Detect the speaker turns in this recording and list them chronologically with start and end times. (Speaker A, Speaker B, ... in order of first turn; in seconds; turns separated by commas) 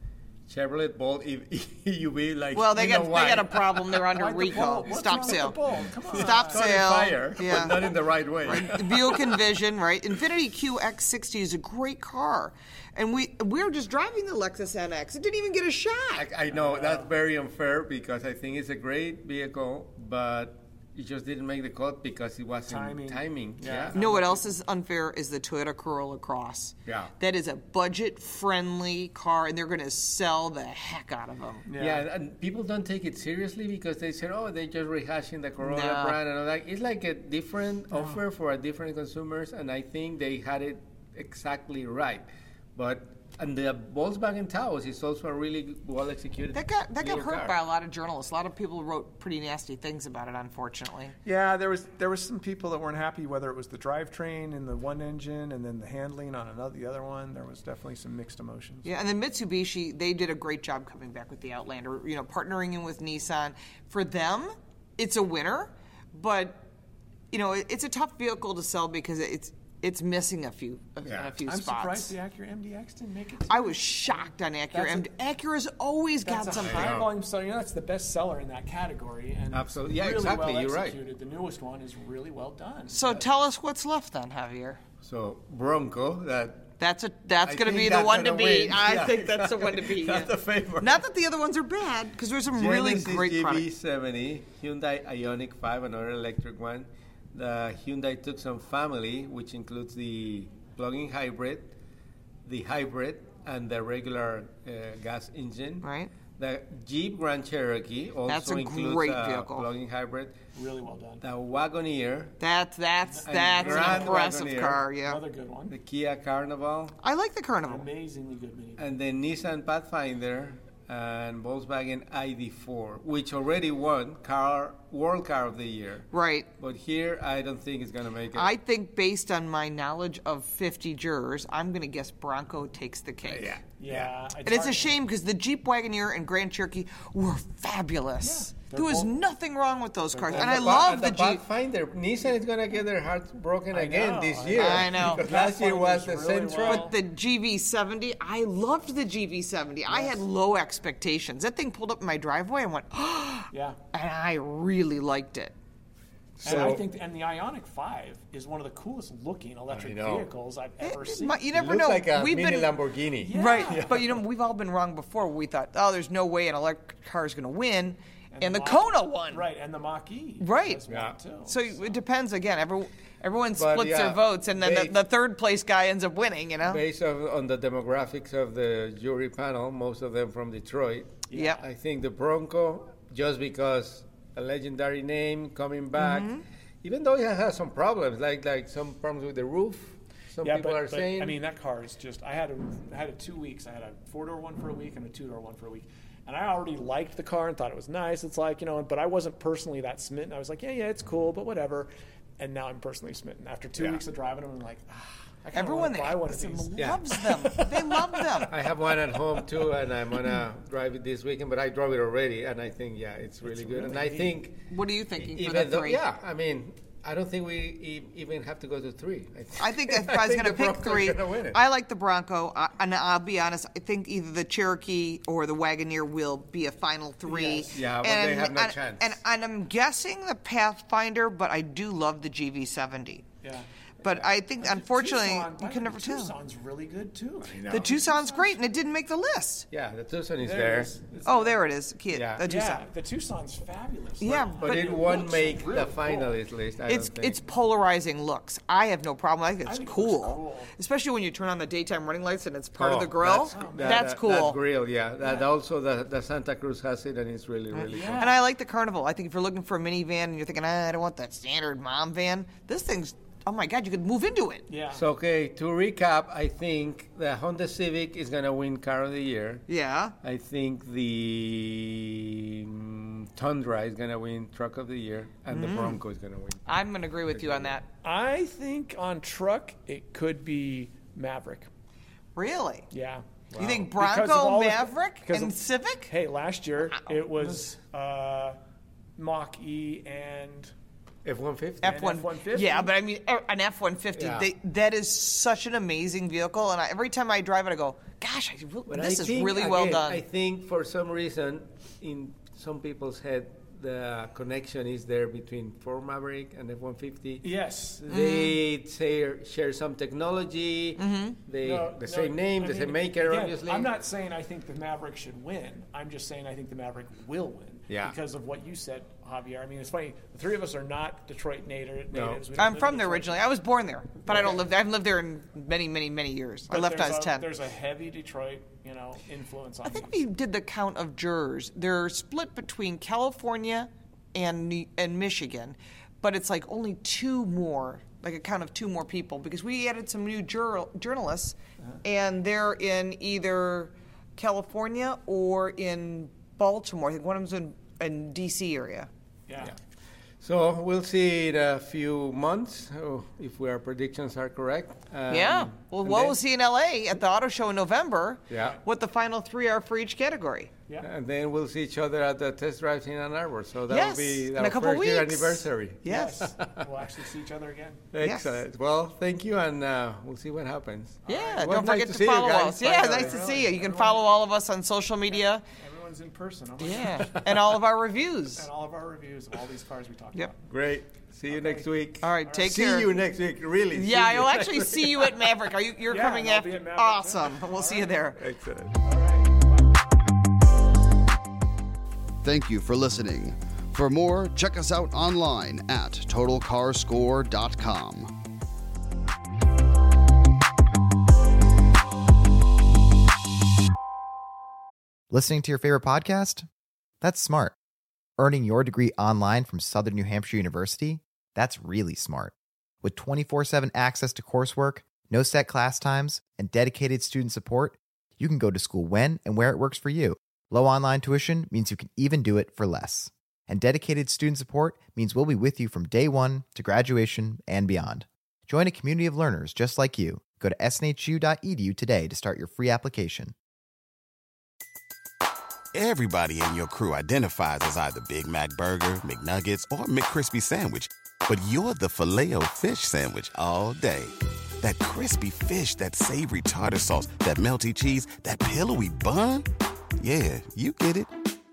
Speaker A: 0.5-4.2, Speaker B: 2.5-5.6, Speaker C: 4.1-7.9, Speaker A: 5.8-9.5, Speaker B: 6.1-16.2, Speaker C: 8.4-8.7, Speaker A: 16.1-24.0, Speaker C: 16.5-17.1, Speaker C: 22.6-24.6, Speaker B: 23.9-31.7, Speaker A: 26.9-27.1, Speaker C: 31.6-32.0, Speaker A: 31.8-47.5, Speaker B: 35.6-36.2, Speaker B: 46.5-51.1, Speaker C: 51.2-58.9, Speaker B: 58.8-66.7, Speaker B: 67.3-72.1, Speaker A: 71.0-71.3, Speaker C: 71.5-75.1, Speaker B: 73.5-77.0, Speaker C: 76.2-83.3, Speaker A: 76.6-77.1, Speaker A: 79.5-81.0, Speaker B: 82.9-84.8, Speaker A: 85.0-86.7, Speaker B: 86.8-93.7, Speaker A: 87.4-91.0, Speaker A: 92.5-101.7, Speaker A: 102.5-105.9, Speaker B: 105.8-106.1, Speaker A: 106.4-110.3, Speaker B: 108.2-109.7, Speaker C: 110.5-111.2, Speaker A: 111.2-112.3, Speaker B: 112.4-115.2, Speaker C: 113.0-115.8, Speaker A: 113.2-114.8, Speaker A: 115.7-117.0, Speaker B: 117.0-117.9, Speaker C: 117.6-118.9, Speaker A: 118.8-128.5, Speaker B: 126.1-126.5, Speaker B: 128.3-133.6, Speaker A: 133.2-134.1, Speaker C: 133.8-134.9, Speaker B: 134.4-141.4, Speaker C: 138.2-139.1, Speaker C: 140.1-140.9, Speaker A: 140.3-146.9, Speaker C: 143.7-147.0, Speaker B: 144.5-145.2, Speaker B: 146.6-155.5, Speaker C: 149.9-150.2, Speaker C: 153.5-153.8, Speaker A: 156.4-156.8, Speaker C: 156.4-161.5, Speaker A: 159.7-160.3, Speaker B: 160.8-162.7, Speaker A: 161.5-164.2, Speaker C: 163.2-163.9, Speaker B: 163.3-169.4, Speaker C: 168.3-172.0, Speaker B: 170.4-170.8, Speaker A: 170.9-171.2, Speaker B: 171.4-176.8, Speaker A: 173.5-175.0, Speaker A: 176.6-186.3, Speaker C: 181.3-181.6, Speaker B: 181.3-181.6, Speaker B: 186.0-186.4, Speaker A: 186.8-191.4, Speaker C: 190.4-207.9, Speaker B: 205.5-208.5, Speaker A: 206.8-207.1, Speaker A: 208.5-214.6, Speaker C: 213.4-214.3, Speaker B: 214.7-216.0, Speaker A: 215.2-221.6, Speaker B: 219.6-233.2, Speaker C: 227.3-227.8, Speaker A: 227.3-229.2, Speaker C: 233.4-238.7, Speaker B: 234.0-236.3, Speaker A: 237.4-237.9, Speaker B: 237.7-239.7, Speaker A: 239.7-240.9, Speaker C: 240.4-241.6, Speaker B: 241.2-242.8, Speaker A: 242.1-242.4, Speaker C: 242.4-246.4, Speaker B: 244.2-245.2, Speaker A: 244.6-247.4, Speaker B: 246.9-254.6, Speaker C: 249.6-250.7, Speaker A: 252.8-258.4, Speaker C: 253.5-254.1, Speaker C: 255.2-255.5, Speaker B: 257.7-264.7, Speaker C: 257.9-258.4, Speaker C: 264.7-265.0, Speaker A: 264.9-269.6, Speaker B: 269.7-270.1, Speaker A: 270.2-276.6, Speaker B: 275.5-276.0, Speaker B: 276.6-277.9, Speaker A: 277.3-277.8, Speaker C: 278.0-281.7, Speaker B: 282.4-282.9, Speaker C: 282.9-288.6, Speaker B: 283.6-286.1, Speaker B: 286.9-287.6, Speaker C: 289.2-290.7, Speaker A: 291.2-292.0, Speaker C: 291.8-292.9, Speaker B: 291.8-300.2, Speaker A: 294.1-294.5, Speaker A: 298.9-307.5, Speaker C: 307.4-308.1, Speaker B: 308.1-308.6, Speaker A: 308.1-313.9, Speaker B: 311.0-311.4, Speaker C: 311.6-323.5, Speaker A: 317.9-318.2, Speaker A: 322.1-322.4, Speaker B: 322.6-327.4, Speaker C: 324.2-324.7, Speaker C: 326.7-330.2, Speaker B: 329.8-349.1, Speaker C: 349.5-349.7, Speaker A: 350.4-356.4, Speaker B: 355.3-360.7, Speaker C: 358.5-358.8, Speaker A: 361.0-366.9, Speaker B: 363.9-366.4, Speaker C: 366.1-368.1, Speaker A: 368.1-373.3, Speaker B: 368.2-368.6, Speaker C: 371.2-371.8, Speaker B: 371.3-375.6, Speaker C: 372.8-374.3, Speaker C: 375.3-377.8, Speaker B: 376.8-378.7, Speaker C: 378.5-380.6, Speaker A: 380.7-385.4, Speaker C: 381.5-381.9, Speaker B: 382.2-383.1, Speaker C: 382.4-382.8, Speaker B: 383.9-388.4, Speaker C: 386.1-388.3, Speaker A: 388.3-388.9, Speaker C: 389.0-390.1, Speaker D: 392.4-398.3, Speaker E: 405.3-406.6, Speaker E: 407.2-407.8, Speaker E: 408.4-433.5, Speaker F: 435.9-449.7, Speaker F: 450.2-451.3